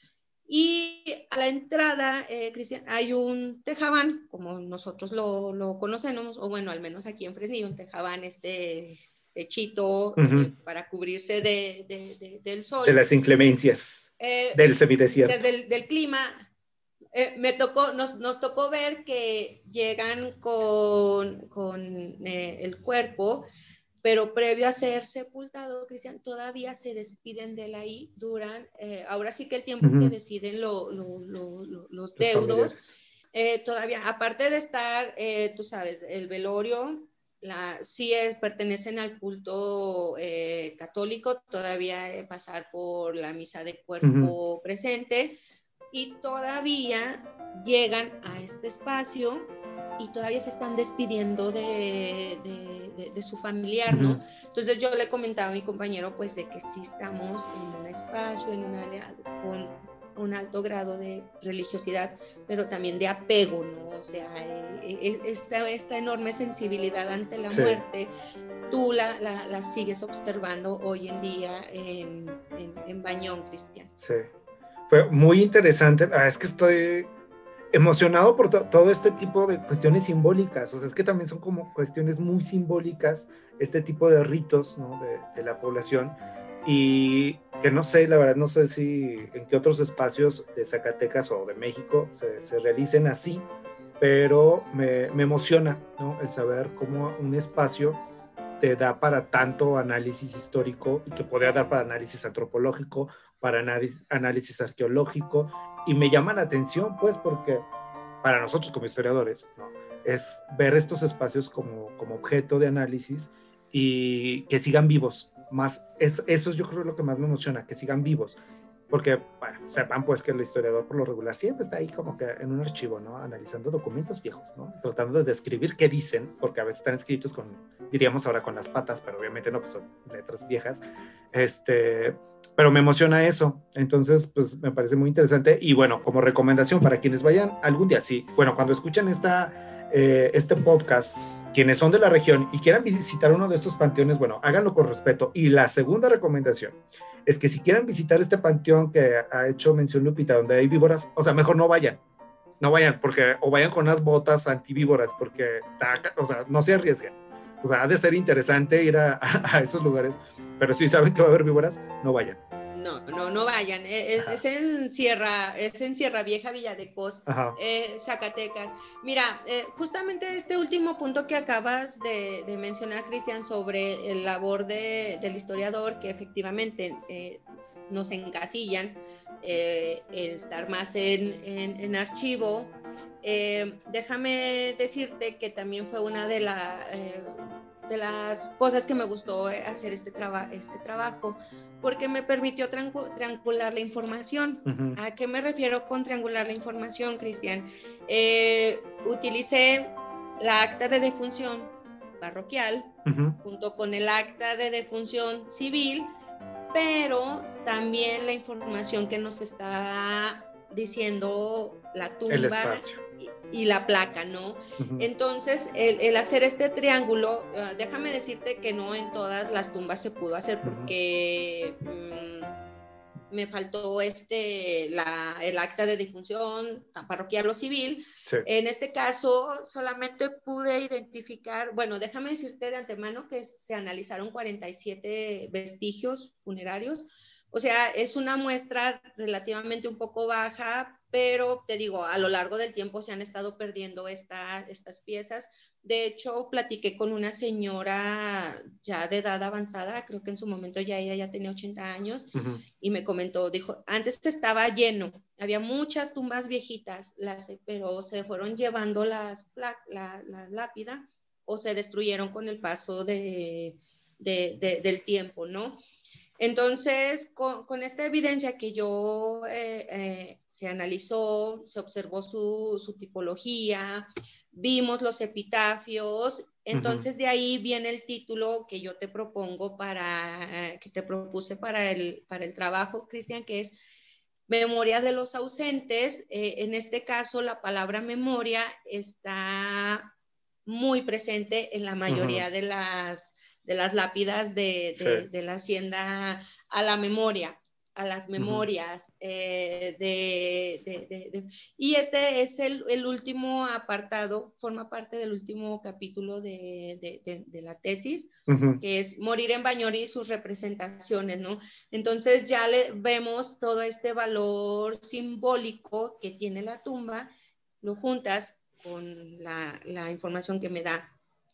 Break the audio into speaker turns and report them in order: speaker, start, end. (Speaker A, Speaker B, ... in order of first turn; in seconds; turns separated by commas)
Speaker A: 0.5-13.0, Speaker B: 10.2-10.5, Speaker B: 12.8-15.4, Speaker A: 14.2-16.5, Speaker A: 17.1-23.5, Speaker A: 24.0-32.8, Speaker B: 29.8-30.1, Speaker B: 32.2-32.9, Speaker A: 33.3-45.4, Speaker B: 44.0-44.4, Speaker A: 45.9-68.1, Speaker B: 53.9-54.2, Speaker B: 67.5-67.8, Speaker A: 68.7-73.9, Speaker B: 74.0-74.3, Speaker B: 74.9-77.1, Speaker B: 77.7-93.5, Speaker B: 94.0-98.0, Speaker B: 98.6-107.7, Speaker B: 108.2-118.4, Speaker B: 118.9-130.8, Speaker B: 131.3-152.0, Speaker B: 152.6-162.4, Speaker A: 162.7-206.1, Speaker B: 167.3-167.6, Speaker B: 194.7-195.0, Speaker B: 203.1-203.4, Speaker A: 206.7-222.5, Speaker B: 212.3-213.0, Speaker B: 214.8-215.1, Speaker B: 220.6-220.9, Speaker A: 223.3-265.8, Speaker B: 252.3-252.6, Speaker A: 266.4-283.8, Speaker B: 276.7-277.1, Speaker A: 284.5-290.1, Speaker A: 290.6-317.3, Speaker B: 292.1-292.4, Speaker B: 294.9-295.3, Speaker B: 298.4-298.6, Speaker B: 308.5-308.8, Speaker A: 317.8-321.1